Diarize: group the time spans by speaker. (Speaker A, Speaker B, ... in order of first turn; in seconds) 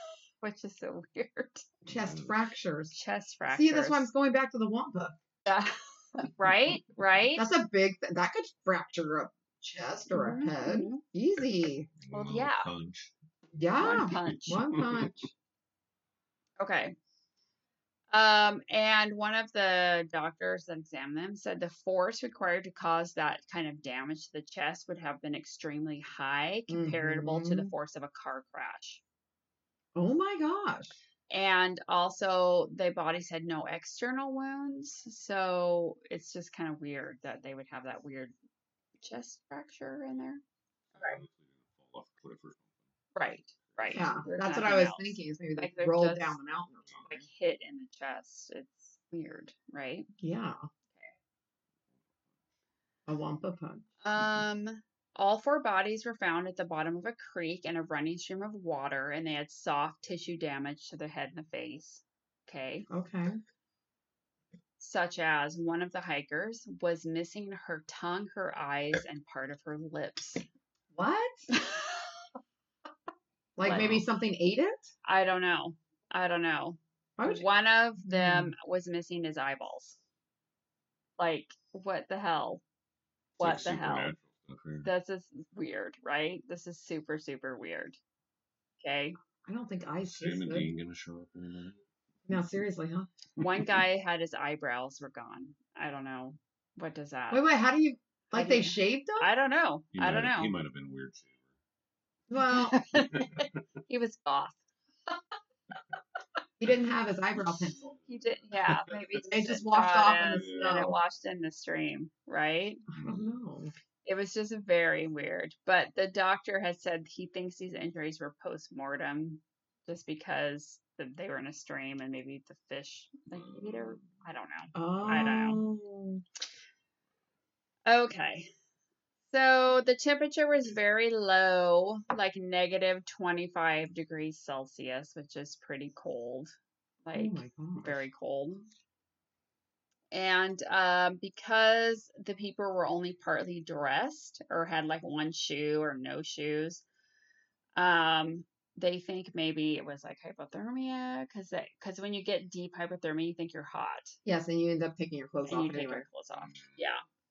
Speaker A: 0.4-1.7, 2.9-4.1, 5.5-7.5, 10.1-11.0, 12.1-12.7, 13.8-14.6, 16.6-16.9, 18.1-29.0, 31.3-38.3, 39.0-40.4, 43.1-46.4, 47.0-50.1, 54.0-62.9, 64.8-70.4, 71.5-72.0, 73.6-74.0, 75.0-80.0, 81.2-82.6, 83.4-84.1, 84.8-88.0, 88.8-89.2, 93.4-97.5, 98.3-100.5, 102.5-104.6, 108.1-112.8, 114.0-125.6, 127.9-128.5, 129.3-138.7, 140.1-146.8, 147.8-154.2, 155.4-157.0
Speaker B: 1.9-2.4, 12.0-13.1, 14.7-15.1, 40.9-42.8, 43.7-44.1, 73.7-74.0, 83.4-84.9, 90.0-91.8, 99.9-101.5, 102.9-103.5, 107.8-109.0, 110.3-110.9, 113.0-113.3, 123.3-124.1, 156.3-156.8
Speaker C: 1.9-2.9, 3.5-5.2, 7.4-11.9, 13.6-15.3, 26.7-27.7, 29.9-30.9, 43.9-47.2, 50.2-50.6, 53.1-53.9, 62.9-63.4, 70.9-71.5, 73.6-74.9, 77.2-77.5, 78.0-78.5, 89.4-90.7, 92.3-93.1, 97.3-99.2, 102.3-102.8, 106.6-107.9, 109.3-110.9, 112.9-113.7, 124.7-126.2, 137.1-138.0, 154.2-156.1